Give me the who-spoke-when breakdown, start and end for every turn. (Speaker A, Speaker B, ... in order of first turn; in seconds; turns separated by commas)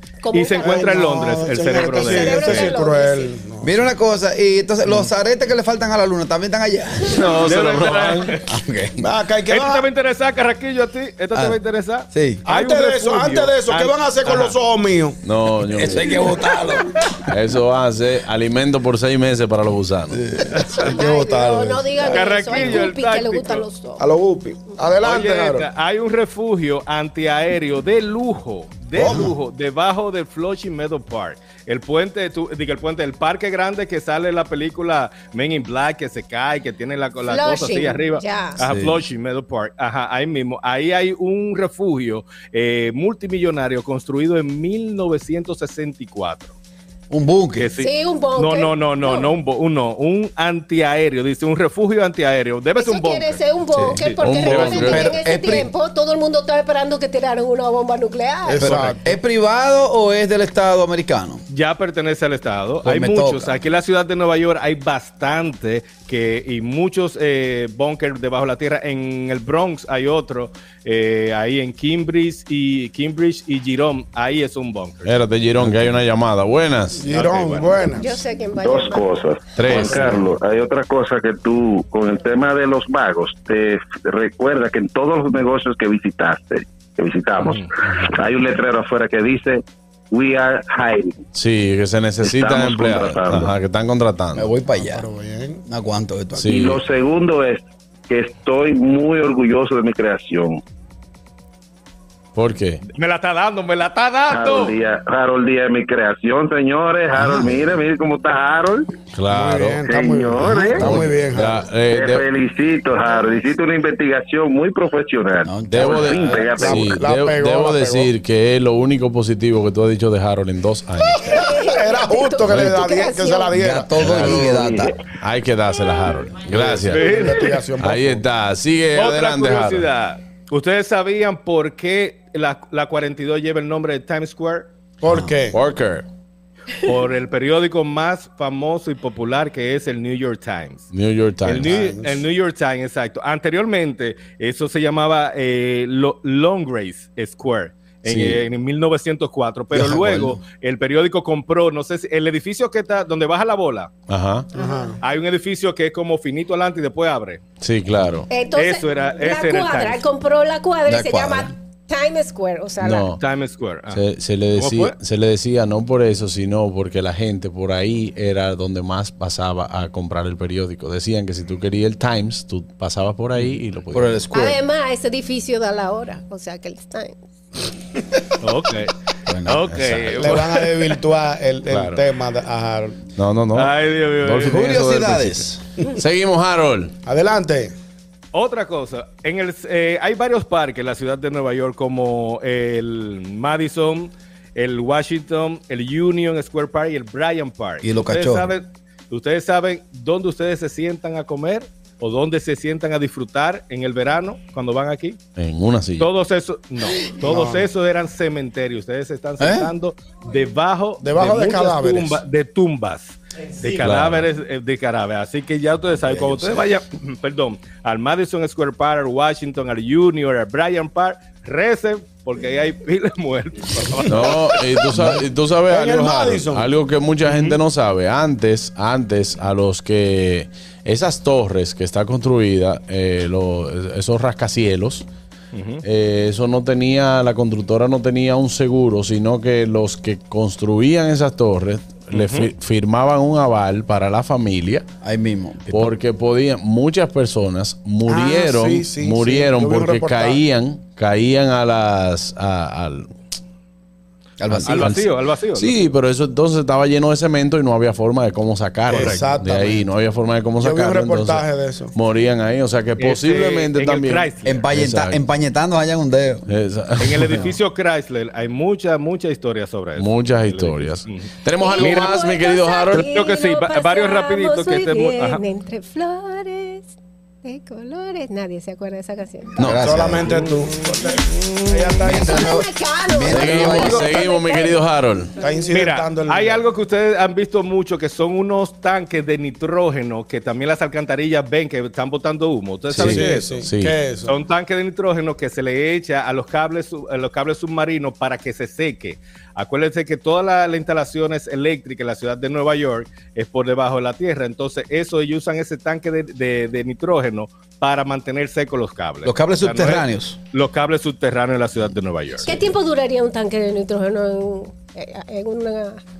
Speaker A: 0.2-1.0, Speaker B: 0.3-2.7, Speaker C: 0.6-3.8, Speaker A: 1.6-3.3, Speaker D: 3.6-7.5, Speaker E: 7.1-8.4, Speaker B: 7.3-8.4, Speaker D: 8.5-9.1, Speaker C: 9.0-9.8, Speaker B: 9.5-14.6, Speaker D: 11.3-11.6, Speaker D: 12.1-12.4, Speaker C: 12.4-15.2, Speaker E: 15.2-16.2, Speaker D: 15.6-17.1, Speaker E: 17.3-20.2, Speaker D: 20.1-20.5, Speaker C: 20.5-22.8, Speaker A: 20.8-24.0, Speaker B: 22.0-23.6, Speaker C: 24.0-25.7, Speaker B: 25.0-46.5, Speaker C: 29.0-29.3, Speaker D: 29.0-29.3, Speaker A: 37.3-38.6, Speaker D: 38.6-39.0, Speaker D: 47.1-47.7, Speaker B: 47.6-53.4, Speaker A: 47.8-49.3, Speaker A: 52.8-58.9, Speaker D: 53.7-55.7, Speaker B: 54.0-54.5, Speaker E: 54.2-55.1, Speaker C: 58.5-59.0, Speaker D: 58.6-61.4, Speaker B: 61.5-75.1, Speaker D: 62.8-63.6, Speaker E: 75.0-77.0, Speaker C: 77.0-78.2, Speaker B: 77.1-78.1, Speaker A: 77.9-80.0, Speaker F: 78.6-89.6, Speaker E: 79.5-80.2, Speaker C: 79.7-80.3, Speaker B: 87.4-87.7, Speaker E: 87.8-88.1, Speaker F: 90.1-91.1, Speaker E: 91.3-94.5, Speaker F: 92.2-93.5, Speaker D: 94.3-95.0, Speaker C: 94.8-95.6, Speaker D: 95.6-96.5, Speaker E: 96.3-96.8, Speaker F: 96.5-100.6, Speaker E: 102.3-102.8, Speaker B: 102.9-104.8, Speaker F: 104.3-108.9, Speaker D: 107.1-107.8, Speaker E: 109.1-109.8, Speaker C: 109.3-111.6, Speaker F: 109.8-111.0, Speaker D: 110.7-111.2, Speaker E: 110.8-112.3, Speaker F: 111.9-116.7, Speaker D: 115.4-116.4, Speaker E: 115.6-121.3, Speaker C: 116.5-118.1, Speaker A: 121.2-123.6, Speaker C: 121.4-124.6, Speaker E: 122.5-122.7, Speaker D: 123.5-125.0, Speaker E: 124.0-124.4, Speaker F: 124.4-124.9, Speaker E: 125.2-127.0, Speaker A: 125.7-126.2, Speaker C: 126.5-128.2, Speaker B: 126.9-127.6, Speaker E: 127.8-129.9, Speaker B: 128.9-134.7, Speaker C: 135.0-135.6, Speaker E: 135.1-136.1, Speaker B: 136.8-140.9, Speaker E: 140.9-141.8, Speaker B: 141.4-153.9, Speaker C: 141.6-142.2, Speaker E: 148.0-148.4, Speaker D: 149.7-150.4, Speaker E: 154.1-154.5, Speaker C: 154.5-154.9, Speaker A: 154.6-154.9, Speaker B: 155.0-157.4, Speaker E: 157.6-158.3, Speaker A: 158.3-163.1, Speaker B: 158.5-160.0, Speaker D: 160.8-161.5, Speaker E: 162.8-163.2, Speaker B: 163.2-164.0, Speaker E: 163.9-174.2, Speaker B: 164.5-164.9, Speaker D: 173.9-174.6, Speaker A: 174.3-177.2, Speaker B: 178.4-178.9, Speaker D: 179.3-179.6, Speaker B: 179.4-181.0, Speaker E: 179.7-180.4, Speaker C: 180.1-183.0, Speaker B: 181.7-182.0, Speaker E: 183.2-186.9, Speaker B: 183.5-184.7, Speaker D: 184.4-185.6, Speaker C: 187.0-187.7, Speaker B: 188.3-205.2, Speaker D: 197.8-198.5, Speaker E: 205.4-206.1, Speaker B: 206.0-224.9, Speaker C: 207.2-207.7, Speaker D: 209.4-209.7, Speaker C: 211.0-212.2, Speaker E: 213.8-214.2, Speaker E: 224.1-235.1, Speaker C: 225.7-226.7, Speaker B: 227.2-227.6, Speaker B: 235.5-235.8, Speaker E: 235.8-244.8, Speaker B: 242.1-242.5, Speaker D: 245.0-245.9, Speaker E: 245.7-253.1, Speaker C: 248.1-250.4, Speaker D: 254.4-255.0, Speaker E: 254.5-265.2, Speaker B: 254.6-255.8, Speaker C: 258.9-259.8, Speaker B: 258.9-259.3, Speaker C: 260.6-261.9, Speaker B: 263.0-264.6, Speaker D: 264.4-266.4, Speaker E: 266.5-267.5, Speaker B: 267.0-272.2, Speaker E: 269.9-273.1, Speaker A: 271.6-279.5, Speaker B: 272.9-275.4, Speaker E: 279.6-279.9, Speaker D: 279.6-280.4, Speaker C: 279.6-282.6, Speaker B: 280.2-282.0, Speaker D: 282.0-284.2, Speaker A: 282.0-284.8, Speaker E: 283.3-285.3, Speaker A: 285.4-285.7, Speaker C: 285.4-286.6, Speaker B: 285.7-293.6, Speaker E: 292.9-293.9, Speaker C: 292.9-294.3, Speaker B: 294.2-312.5, Speaker D: 309.2-310.4, Speaker A: 312.4-316.0